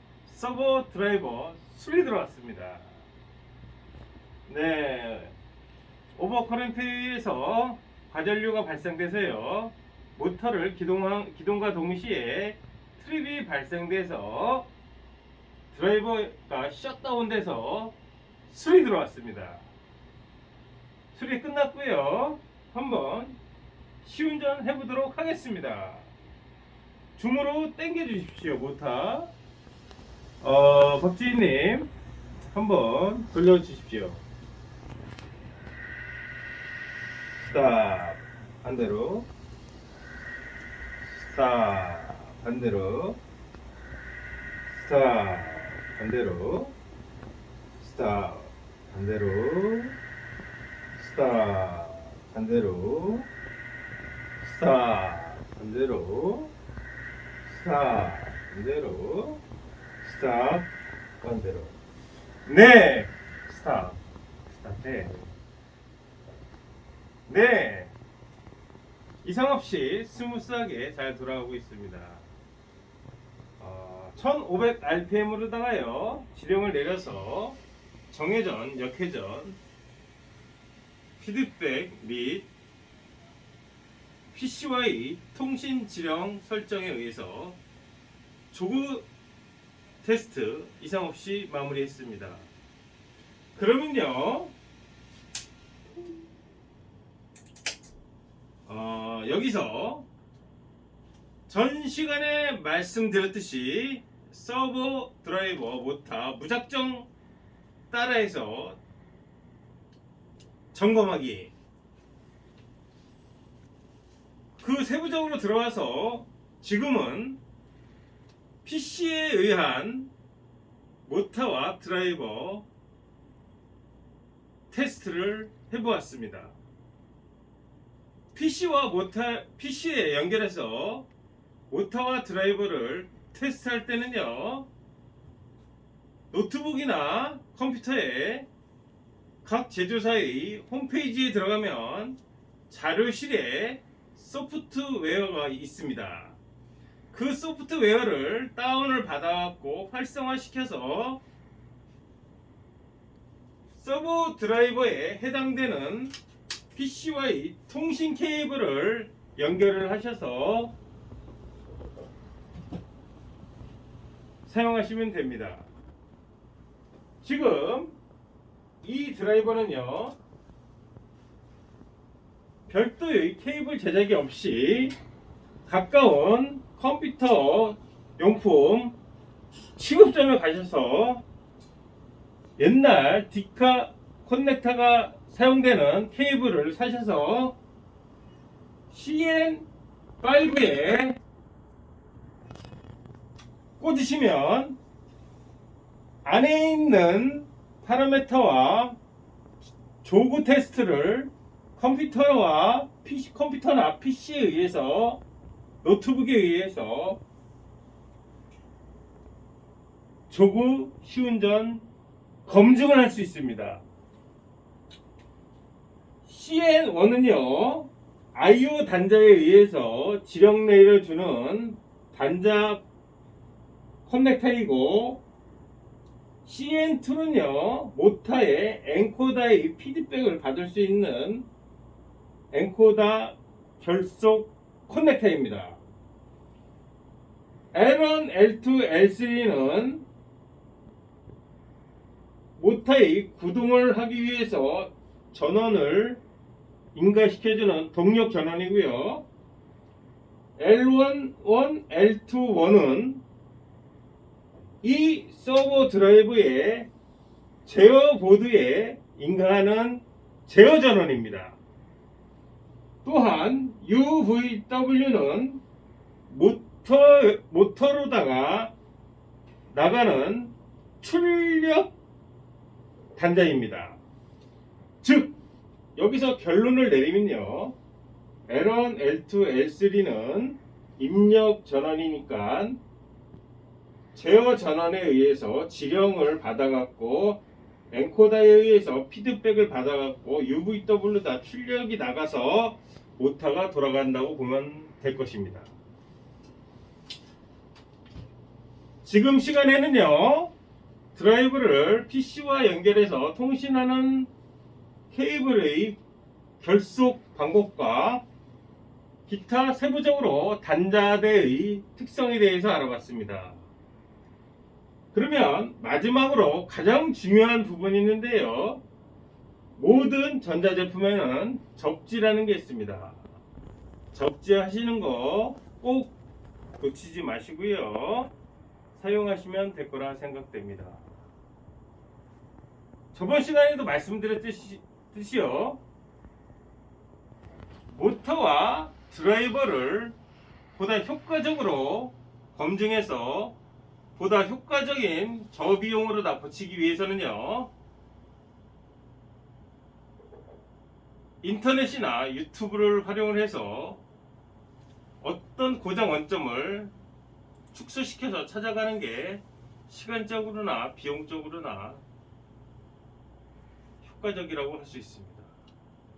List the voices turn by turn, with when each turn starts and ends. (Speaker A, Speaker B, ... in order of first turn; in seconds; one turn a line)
Speaker A: 0.2-3.0
Speaker A: 4.5-5.4
Speaker A: 6.1-14.7
Speaker A: 15.7-17.9
Speaker A: 18.5-19.7
Speaker A: 21.1-23.4
Speaker A: 24.0-26.1
Speaker A: 27.2-29.3
Speaker A: 30.4-31.9
Speaker A: 32.5-34.2
Speaker A: 37.4-39.3
Speaker A: 41.0-43.2
Speaker A: 44.7-46.8
Speaker A: 47.8-50.0
Speaker A: 50.9-53.3
Speaker A: 54.4-56.5
Speaker A: 57.5-59.4
Speaker A: 60.0-60.7
Speaker A: 61.2-61.8
Speaker A: 62.5-65.3
Speaker A: 67.2-67.9
Speaker A: 69.2-72.3
Speaker A: 73.6-77.6
Speaker A: 78.1-79.6
Speaker A: 81.2-82.5
Speaker A: 84.3-87.6
Speaker A: 88.5-89.1
Speaker A: 90.0-92.5
Speaker A: 93.5-94.5
Speaker A: 98.7-100.1
Speaker A: 101.5-107.1
Speaker A: 107.9-108.8
Speaker A: 110.7-111.5
Speaker A: 114.6-117.4
Speaker A: 118.6-120.1
Speaker A: 121.0-122.7
Speaker A: 124.7-126.5
Speaker A: 128.3-131.1
Speaker A: 131.7-134.7
Speaker A: 136.3-138.5
Speaker A: 139.4-146.4
Speaker A: 147.1-151.2
Speaker A: 153.7-156.1
Speaker A: 156.7-160.7
Speaker A: 164.4-165.7
Speaker A: 167.2-168.0
Speaker A: 168.8-170.2
Speaker A: 172.7-174.9
Speaker A: 175.6-178.9
Speaker A: 179.8-181.2
Speaker A: 182.6-187.6
Speaker A: 188.9-189.7
Speaker A: 190.2-191.2
Speaker A: 193.8-194.8
Speaker A: 196.2-199.0
Speaker A: 200.0-205.2
Speaker A: 205.8-207.2
Speaker A: 210.3-211.8
Speaker A: 212.4-213.8
Speaker A: 216.2-222.8
Speaker A: 224.0-225.2
Speaker A: 226.4-231.5
Speaker A: 232.5-235.8
Speaker A: 237.7-240.1
Speaker A: 242.5-246.2
Speaker A: 246.9-249.2
Speaker A: 250.6-253.2
Speaker A: 254.8-256.9
Speaker A: 257.6-261.6
Speaker A: 263.0-265.6
Speaker A: 266.3-268.7
Speaker A: 269.7-271.9
Speaker A: 273.1-274.0
Speaker A: 275.0-275.4
Speaker A: 275.9-277.8
Speaker A: 278.5-282.8
Speaker A: 284.1-295.7
Speaker A: 299.0-300.5
Speaker A: 301.1-304.3
Speaker A: 305.1-306.0
Speaker A: 306.6-308.2
Speaker A: 309.2-313.6
Speaker A: 315.1-318.8
Speaker A: 319.8-323.2
Speaker A: 324.1-326.1
Speaker A: 326.8-328.3
Speaker A: 328.9-331.0
Speaker A: 333.1-335.8
Speaker A: 337.9-340.1
Speaker A: 340.7-343.6
Speaker A: 344.1-347.7
Speaker A: 351.4-354.0
Speaker A: 355.2-356.9
Speaker A: 357.7-362.0
Speaker A: 364.0-365.5